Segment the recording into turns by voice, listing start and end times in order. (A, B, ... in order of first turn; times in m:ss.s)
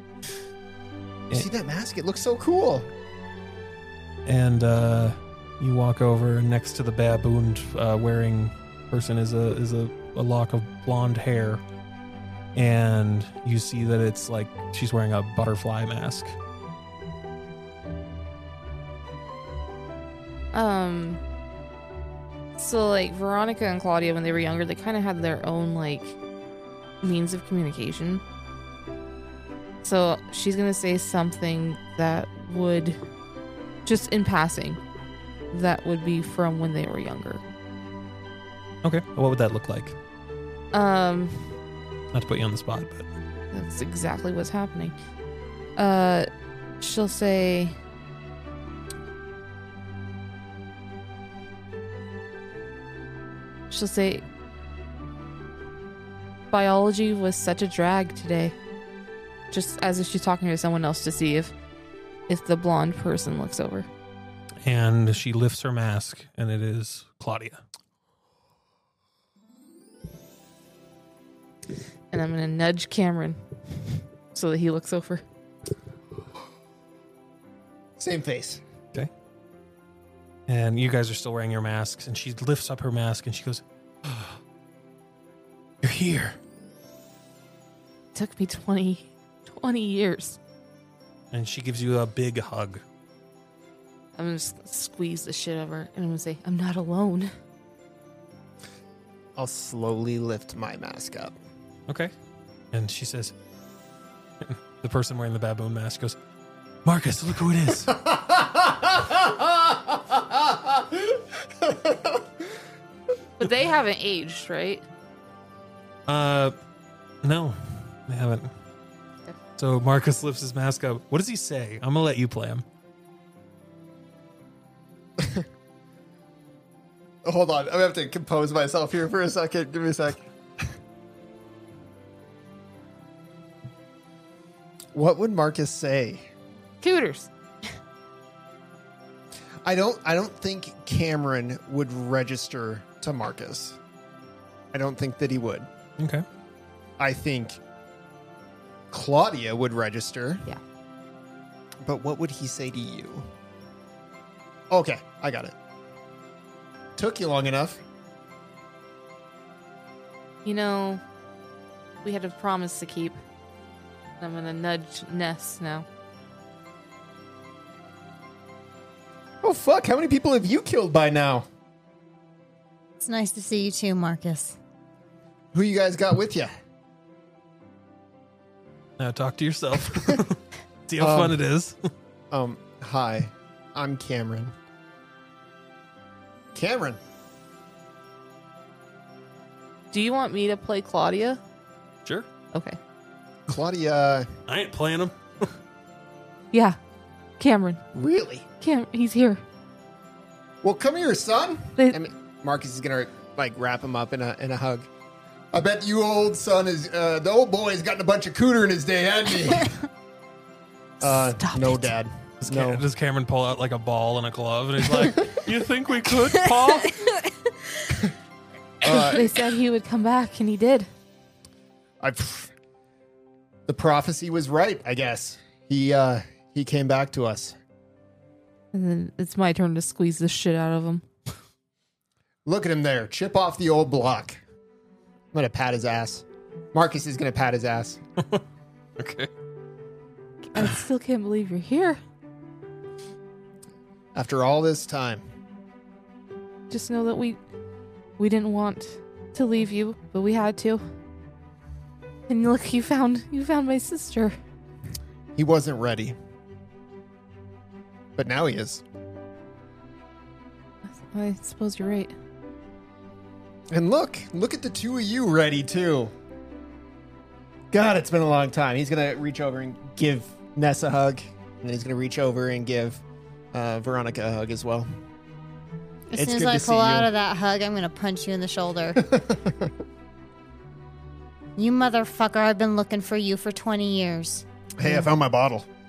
0:01.3-0:02.9 A
0:04.2-0:11.6 B
0:12.5-0:16.3 B
0:20.5-0:21.2 C
0:22.6-0:26.2 C
0:27.0-0:28.2 C
0:29.8-0:33.0 C
0:33.8-0:34.8 C
0:35.5-0:37.4 C
0:38.8-0:39.9 B
0:40.7-0:41.6 C
0:42.1-0:43.1 B
0:43.5-0:44.9 C
0:45.8-0:46.3 C
0:46.8-0:47.7 C
0:53.7-0:54.2 C
0:56.5-0:58.6 C
0:59.5-1:01.5 C
1:02.3-1:03.9 C
1:04.6-1:07.6 B
1:12.1-1:15.2 C
1:18.0-1:18.6 A
1:20.5-1:24.4 B
1:25.8-1:26.4 B
1:28.1-1:30.4 C
1:31.3-1:32.8 B
1:34.1-1:37.3 C
1:39.4-1:41.3 A
1:42.7-1:43.3 B
1:44.4-1:46.2 B
1:46.8-1:47.9 B
1:47.9-1:52.2 A
1:53.4-1:54.8 C
1:56.1-1:56.5 B
1:57.2-1:58.5 B
1:59.6-2:02.6 B
2:05.2-2:05.4 A
2:07.2-2:10.7 A
2:14.9-2:16.3 A
2:16.8-2:17.3 C
2:19.6-2:23.8 A
2:24.7-2:25.7 A
2:26.0-2:26.2 B
2:27.0-2:27.6 A
2:28.9-2:30.5 A
2:31.8-2:33.3 A
2:34.7-2:35.5 A
2:37.0-2:37.8 A
2:40.4-2:41.0 C
2:42.0-2:43.2 C
2:44.2-2:45.8 C
2:49.4-2:51.4 A
2:53.0-2:54.6 D
2:55.5-2:56.5 A
2:59.0-3:01.8 B
3:01.0-3:01.4 A
3:02.3-3:04.5 A
3:06.5-3:07.0 A
3:09.9-3:11.4 C
3:12.5-3:12.8 C
3:13.5-3:14.3 A
3:14.5-3:15.5 B
3:16.5-3:16.8 C
3:17.4-3:17.8 C
3:17.9-3:18.4 A
3:18.6-3:19.4 C
3:20.6-3:24.9 A
3:25.5-3:29.8 A
3:31.0-3:32.8 A
3:31.0-3:31.9 C
3:32.4-3:37.1 B
3:38.8-3:39.3 A
3:38.9-3:40.9 C
3:42.0-3:42.5 A
3:43.7-3:47.6 A
3:48.7-3:51.0 C
3:52.4-3:54.4 A
3:55.3-3:58.0 A
3:59.0-3:59.3 B
4:00.5-4:02.0 C
4:04.1-4:05.2 A
4:06.7-4:07.4 C
4:08.2-4:10.8 C
4:12.3-4:14.4 C
4:15.4-4:16.2 A
4:18.2-4:18.8 A
4:20.8-4:22.1 C
4:23.7-4:26.1 A
4:27.7-4:33.0 A
4:33.5-4:34.9 A
4:36.1-4:39.0 D
4:36.1-4:37.1 A
4:39.0-4:39.7 A
4:41.6-4:44.4 D
4:44.8-4:45.6 A